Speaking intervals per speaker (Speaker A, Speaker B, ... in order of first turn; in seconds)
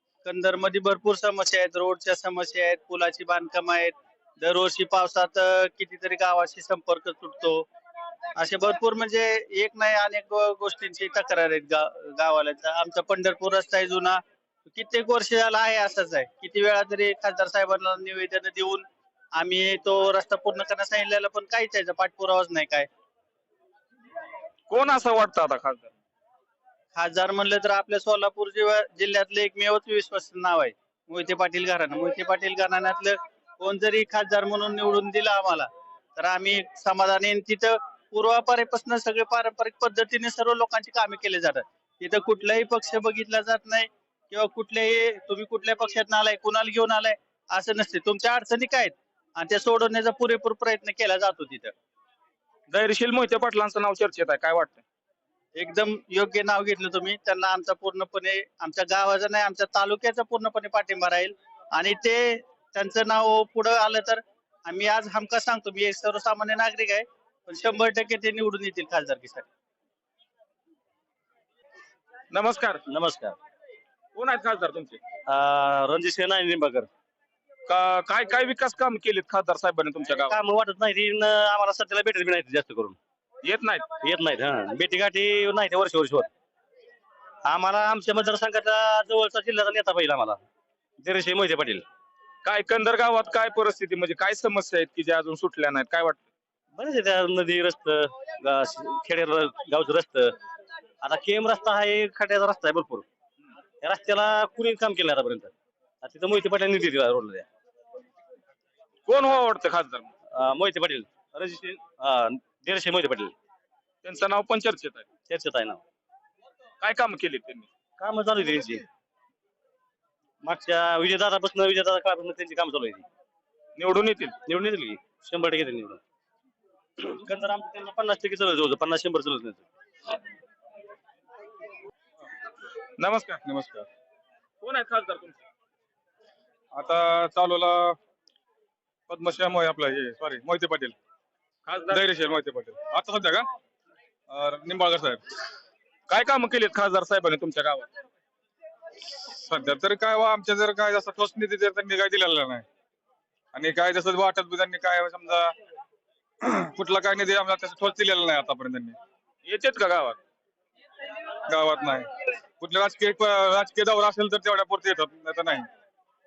Speaker A: 0.2-7.7, 8.3-22.9, 26.9-51.7, 55.5-69.5
Speaker B: 24.7-25.9, 52.7-54.8, 72.3-72.8, 74.2-75.0, 77.7-80.3, 83.4-83.8, 92.4-96.2, 109.1-110.1, 114.0-115.1, 116.8-117.7, 123.8-124.4, 133.0-133.4, 134.6-135.4, 141.7-142.0, 146.1-147.9, 159.4-160.2
Speaker C: 72.9-73.3, 75.3-76.9, 80.1-83.0, 84.0-86.3, 87.5-90.4, 91.0-91.8, 96.7-100.3, 101.0-103.0, 103.8-107.5, 110.3-113.3, 115.3-115.8, 118.0-118.8, 120.4-123.0, 124.5-126.0, 127.1-129.6
Speaker D: 133.4-133.9, 136.7-138.0, 139.1-140.9, 141.9-143.5, 144.3-145.2, 149.3-152.6, 153.5-155.5, 156.4-159.0, 161.5-162.1, 162.6-165.7